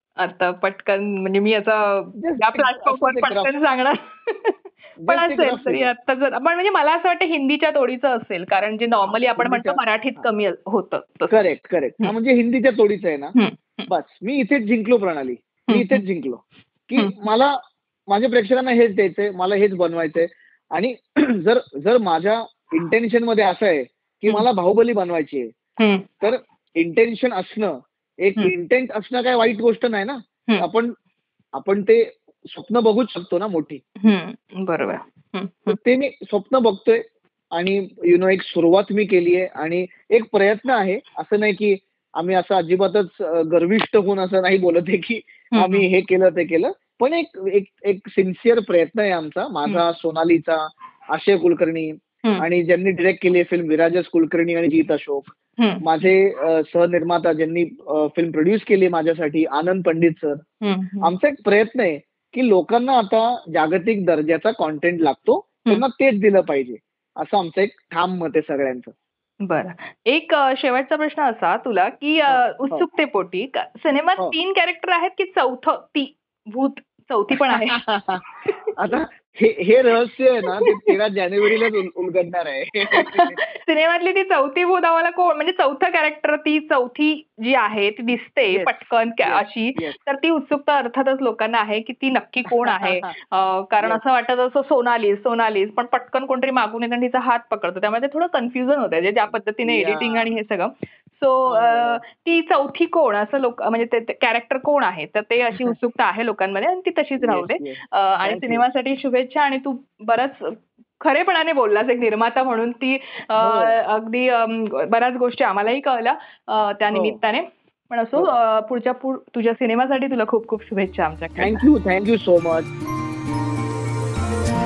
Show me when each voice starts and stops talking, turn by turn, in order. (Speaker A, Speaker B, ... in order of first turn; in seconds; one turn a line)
Speaker A: 0.2-11.3
Speaker B: 2.2-3.5
Speaker B: 5.0-5.9
Speaker B: 9.3-10.3
Speaker B: 11.3-13.3
Speaker A: 13.3-13.9
Speaker B: 13.9-17.6
Speaker A: 15.7-16.0
Speaker B: 18.1-25.5
Speaker A: 25.8-26.1
Speaker B: 26.2-30.9
Speaker B: 31.5-33.8
Speaker A: 34.0-35.8
Speaker B: 35.7-37.0
Speaker B: 37.5-60.4
Speaker A: 45.5-45.9
Speaker A: 55.6-55.8
Speaker A: 60.6-61.1
Speaker B: 61.0-68.9
Speaker A: 69.4-77.9
Speaker B: 72.3-72.9
Speaker B: 77.3-78.2
Speaker A: 78.4-78.7
Speaker B: 78.8-83.4
Speaker A: 80.6-80.9
Speaker A: 83.0-121.6
Speaker B: 89.2-90.0
Speaker B: 92.5-93.1
Speaker B: 99.6-100.3
Speaker B: 101.5-102.0
Speaker B: 107.2-108.7
Speaker B: 113.4-113.8
Speaker B: 116.9-117.2
Speaker B: 121.4-122.7